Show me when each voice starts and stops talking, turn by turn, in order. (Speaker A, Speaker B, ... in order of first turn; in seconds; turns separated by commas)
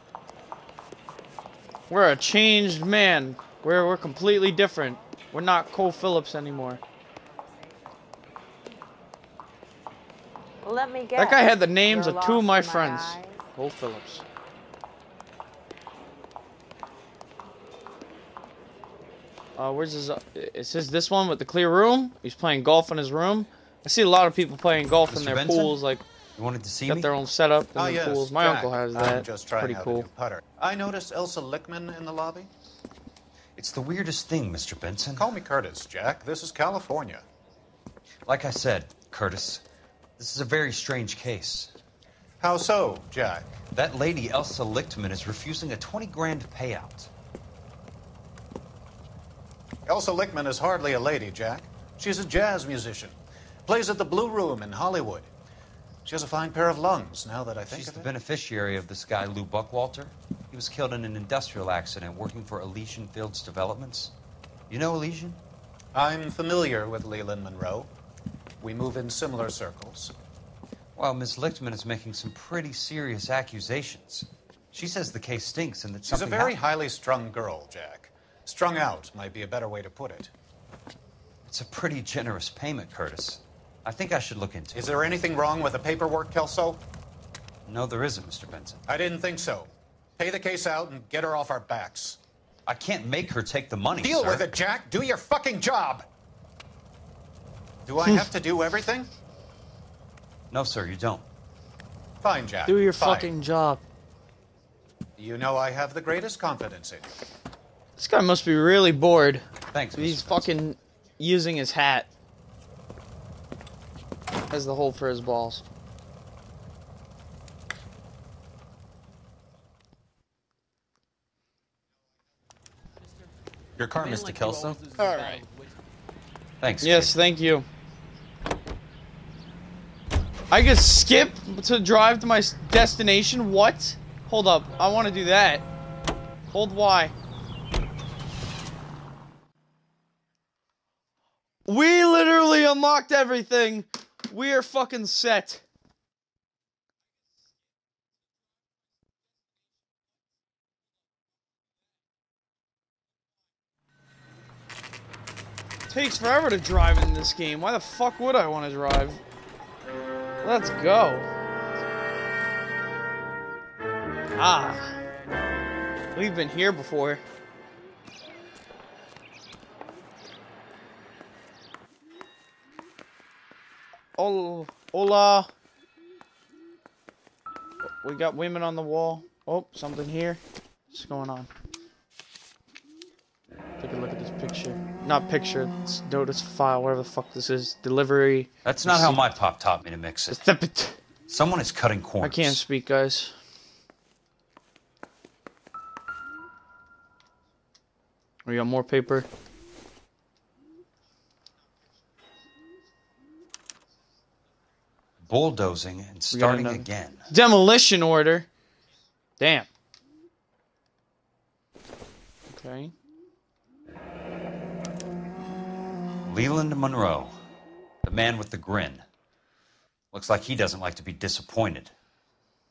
Speaker A: 1.9-6.8, Speaker B: 10.6-13.4, Speaker A: 11.2-14.2, Speaker A: 19.6-26.1, Speaker C: 25.1-25.8, Speaker C: 26.4-27.1, Speaker A: 26.9-30.1, Speaker D: 27.8-32.5, Speaker C: 33.6-35.3, Speaker D: 35.2-37.2, Speaker C: 38.2-39.6, Speaker C: 40.2-41.7, Speaker D: 42.4-43.6, Speaker C: 43.7-47.1, Speaker D: 49.9-55.3, Speaker D: 56.0-58.1, Speaker C: 57.7-64.1, Speaker C: 64.7-65.4, Speaker D: 65.9-67.9, Speaker D: 68.6-70.1, Speaker C: 71.0-76.6, Speaker D: 76.0-80.3, Speaker C: 81.5-85.1, Speaker D: 84.8-86.8, Speaker C: 87.7-88.8, Speaker D: 88.9-92.2, Speaker C: 92.7-94.5, Speaker D: 94.0-96.0, Speaker D: 97.9-99.1, Speaker C: 100.5-101.2, Speaker D: 102.2-103.3, Speaker A: 102.7-103.8, Speaker D: 105.2-107.1, Speaker A: 108.0-109.4, Speaker C: 109.7-110.5, Speaker A: 110.0-112.1, Speaker A: 114.5-115.6, Speaker C: 123.8-124.9, Speaker C: 126.6-127.2, Speaker A: 126.8-127.7, Speaker A: 130.5-135.7, Speaker A: 136.5-137.1, Speaker A: 141.7-145.6, Speaker A: 155.9-159.2, Speaker A: 160.4-161.3, Speaker A: 164.4-165.0, Speaker A: 166.1-167.2, Speaker A: 174.2-175.5, Speaker A: 178.0-181.5, Speaker A: 183.8-189.2, Speaker C: 188.6-190.4, Speaker A: 190.3-191.0, Speaker C: 191.3-192.6, Speaker A: 192.2-193.3, Speaker A: 198.4-199.3, Speaker C: 205.2-207.2, Speaker A: 206.3-208.5, Speaker A: 209.4-209.7, Speaker A: 212.5-212.9, Speaker C: 216.2-217.4, Speaker C: 218.0-219.0, Speaker C: 220.1-221.9